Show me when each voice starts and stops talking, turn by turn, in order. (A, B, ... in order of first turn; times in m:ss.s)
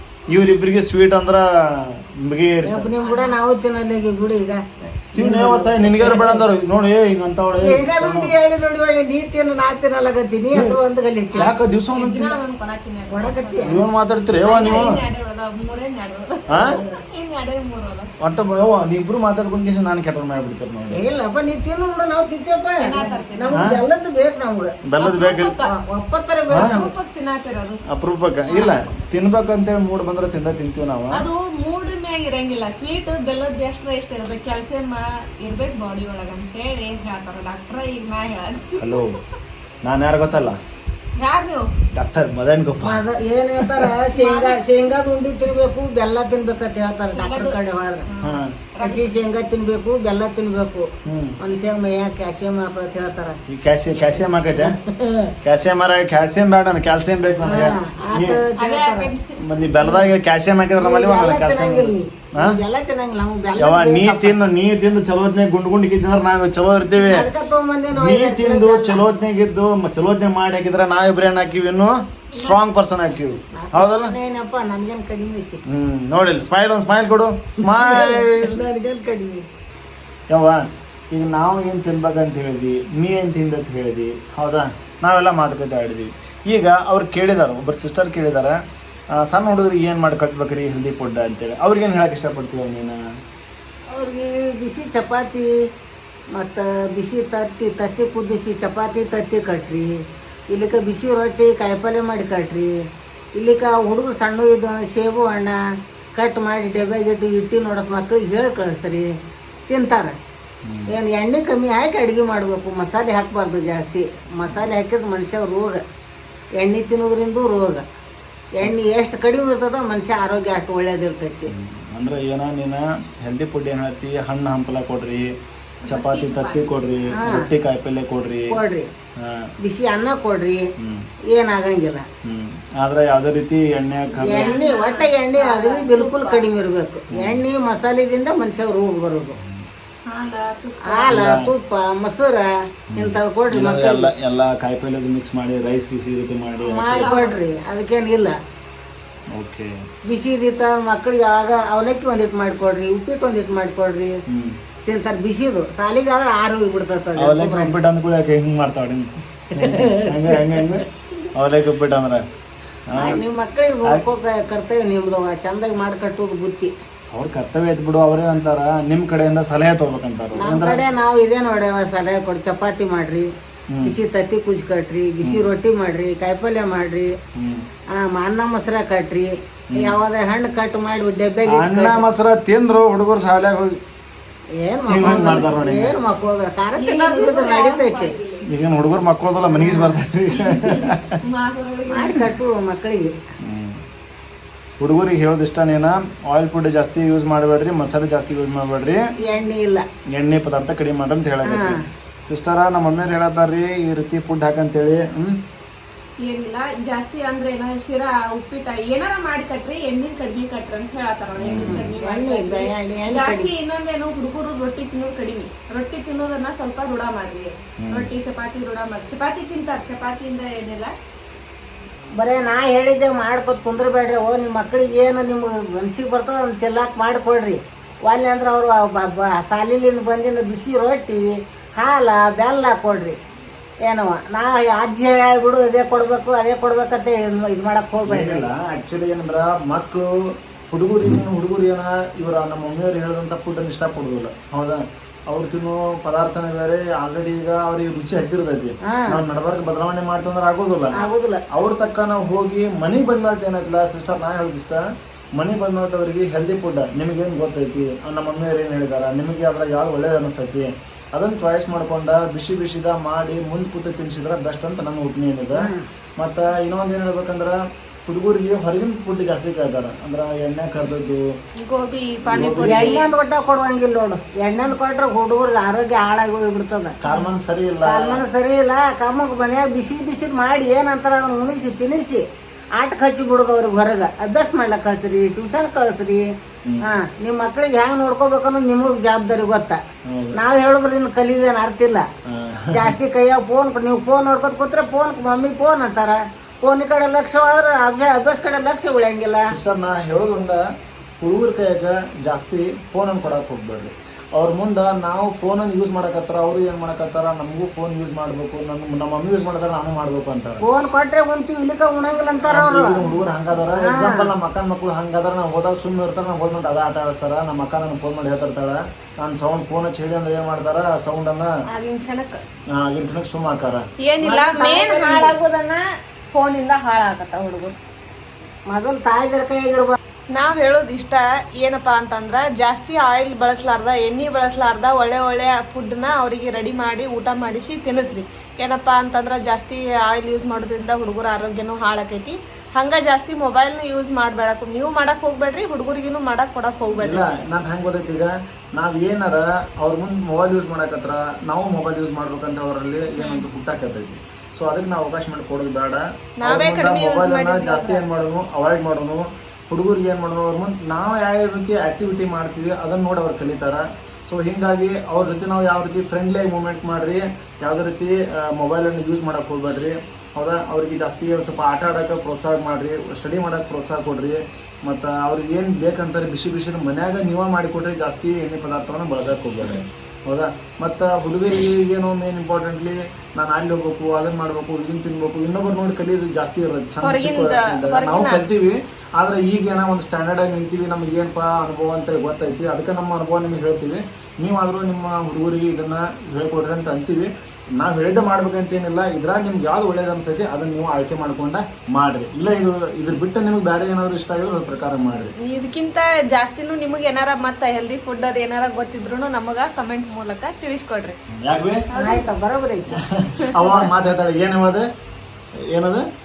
0:00.3-0:02.9 A
0:02.6-0:06.4 B
0:03.0-0:03.3 C
0:05.1-0:08.3 A
0:07.5-0:11.5 B
0:11.4-0:12.4 A
0:11.9-0:13.8 C
0:13.1-0:13.8 B
0:13.6-0:15.0 A
0:14.4-0:18.1 C
0:16.5-0:16.8 A
0:16.6-0:17.0 B
0:18.2-0:21.0 A
0:20.9-0:24.7 B
0:22.8-0:23.7 C
0:23.5-0:23.8 A
0:24.9-0:25.5 A
0:25.0-0:25.7 C
0:25.6-0:26.9 B
0:26.5-0:26.8 A
0:26.5-0:27.8 C
0:27.9-0:31.2 A
0:28.5-0:28.8 C
0:31.1-0:39.2 C
0:38.8-0:39.2 A
0:39.8-0:40.6 A
0:41.2-0:41.7 C
0:41.9-0:43.0 A
0:42.8-0:48.1 B
0:44.1-0:44.6 C
0:47.1-0:47.6 C
0:48.1-0:49.1 C
0:48.2-0:48.5 A
0:48.8-0:50.9 B
0:51.0-0:51.4 A
0:51.4-0:53.4 B
0:53.5-0:54.8 A
0:54.6-0:55.3 B
0:55.4-0:58.4 A
0:57.4-0:59.1 B
0:58.6-0:59.4 C
0:59.4-1:02.6 A
1:00.8-1:04.4 B
1:03.6-1:07.3 A
1:07.0-1:09.0 B
1:08.0-1:14.1 A
1:13.5-1:15.6 B
1:15.7-1:18.6 A
1:17.6-1:19.4 B
1:20.3-1:28.6 A
1:29.1-1:33.0 A
1:33.9-1:35.5 B
1:36.3-1:39.9 B
1:40.5-1:42.7 B
1:43.4-1:45.6 B
1:46.2-1:49.1 B
1:49.7-1:50.1 B
1:50.6-1:50.9 A
1:50.9-1:55.8 B
1:56.6-1:57.8 B
1:58.6-2:01.5 B
2:01.5-2:05.3 A
2:05.8-2:06.8 C
2:05.9-2:08.5 A
2:07.2-2:07.5 B
2:08.5-2:08.9 B
2:09.2-2:09.5 A
2:09.6-2:10.6 B
2:10.8-2:11.0 A
2:11.3-2:12.0 B
2:12.2-2:14.6 A
2:14.1-2:16.5 C
2:14.2-2:19.4 B
2:17.1-2:17.4 A
2:19.4-2:19.6 A
2:20.0-2:21.2 C
2:20.8-2:24.1 B
2:21.1-2:21.5 A
2:22.9-2:27.1 A
2:26.6-2:28.3 B
2:27.0-2:27.4 C
2:29.3-2:29.7 A
2:30.1-2:34.1 B
2:34.3-2:34.5 A
2:34.8-2:37.7 B
2:37.2-2:42.2 A
2:39.6-2:40.4 B
2:42.9-2:43.2 A
2:42.9-2:46.7 B
2:47.1-2:50.8 A
2:50.4-2:53.3 B
2:53.7-2:54.0 A
2:53.8-2:57.1 B
2:57.4-2:57.6 A
2:57.9-3:02.0 B
2:59.7-3:00.0 A
3:01.5-3:03.8 A
3:04.6-3:08.1 B
3:04.9-3:06.0 A
3:06.8-3:08.4 C
3:08.5-3:11.2 A
3:09.5-3:10.0 B
3:10.3-3:12.2 C
3:11.9-3:13.1 B
3:13.4-3:13.8 A
3:14.8-3:19.0 A
3:19.2-3:19.8 B
3:20.1-3:25.4 A
3:21.4-3:21.8 B
3:26.2-3:40.9 C
3:31.4-3:31.9 A
3:31.6-3:33.5 B
3:37.8-3:38.1 A
3:42.2-3:53.2 B
3:53.9-3:58.4 B
3:58.0-4:11.0 A
4:08.9-4:09.2 B
4:10.9-4:11.4 B
4:11.5-4:14.8 A
4:15.4-4:31.2 A
4:25.6-4:25.8 B
4:31.6-4:33.1 C
4:32.2-4:33.0 A
4:32.6-4:37.0 B
4:37.0-4:38.2 A
4:37.8-4:42.2 B
4:42.8-4:46.2 B
4:46.9-4:49.8 B
4:50.1-4:50.4 A
4:50.4-4:52.0 B
4:52.3-4:52.9 A
4:52.7-4:59.5 B
4:59.4-5:00.6 A
5:01.2-5:10.6 A
5:10.6-5:13.0 B
5:12.4-5:21.5 A
5:13.8-5:14.3 B
5:21.7-5:22.4 C
5:22.7-5:23.8 A
5:24.0-5:27.8 C
5:24.2-5:25.3 B
5:28.7-5:30.0 B
5:30.3-5:47.3 C
5:47.0-6:45.3 A
5:53.2-5:53.4 C
5:56.4-5:58.0 C
6:27.0-6:28.4 C
6:45.4-6:51.2 C
6:51.3-6:51.8 A
6:51.9-6:52.3 C
6:51.9-6:53.0 B
6:53.1-6:54.8 A
6:53.4-6:53.9 C
6:55.7-6:56.0 A